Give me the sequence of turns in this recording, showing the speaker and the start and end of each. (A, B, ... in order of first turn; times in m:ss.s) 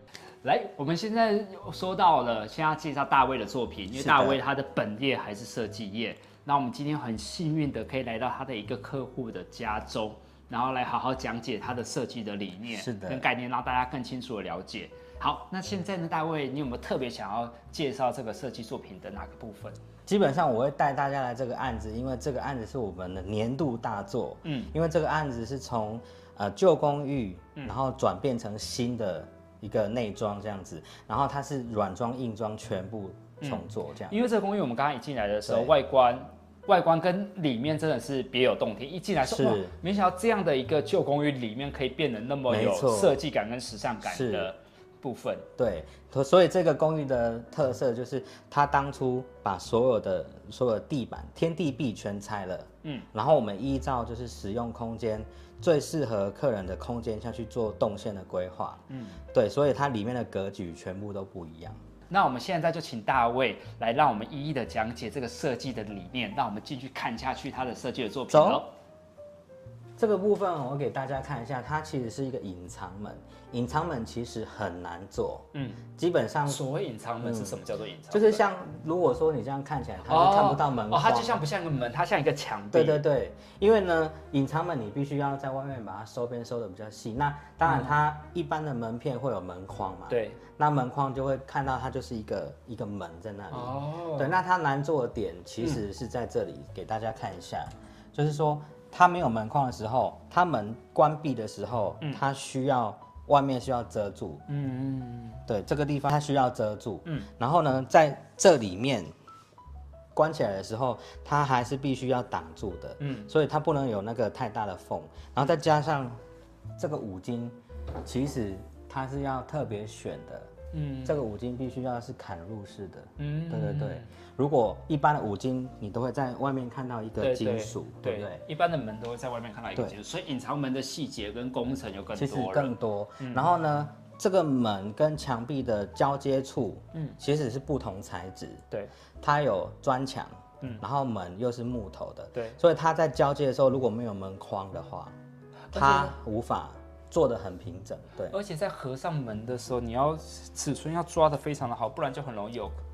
0:00.4-0:19.8 A
0:03.9-0:04.4 B
0:12.7-0:13.3 B
0:20.1-0:34.2 B
0:24.4-0:24.7 A
0:33.4-0:45.5 A
0:35.4-0:35.7 B
0:39.3-0:39.7 B
0:42.5-0:43.2 B
0:44.0-0:44.5 B
0:45.6-1:01.8 B
0:58.9-0:59.2 A
1:02.1-1:08.7 A
1:08.3-1:08.6 B
1:10.0-1:16.6 B
1:15.5-1:15.8 A
1:16.5-1:18.4 A
1:17.2-1:21.4 B
1:20.1-1:23.0 A
1:22.7-1:44.4 B
1:27.7-1:27.9 A
1:30.1-1:30.4 A
1:33.5-1:34.4 A
1:44.5-1:45.4 A
1:45.5-1:49.1 B
1:50.1-1:56.2 B
1:53.0-1:53.3 A
1:56.8-2:00.5 B
2:00.7-2:01.2 A
2:01.0-2:08.4 B
2:03.2-2:04.1 A
2:07.2-2:13.5 A
2:12.2-2:18.6 B
2:19.2-2:25.2 B
2:25.7-2:26.2 A
2:25.7-2:28.4 B
2:28.3-2:32.8 A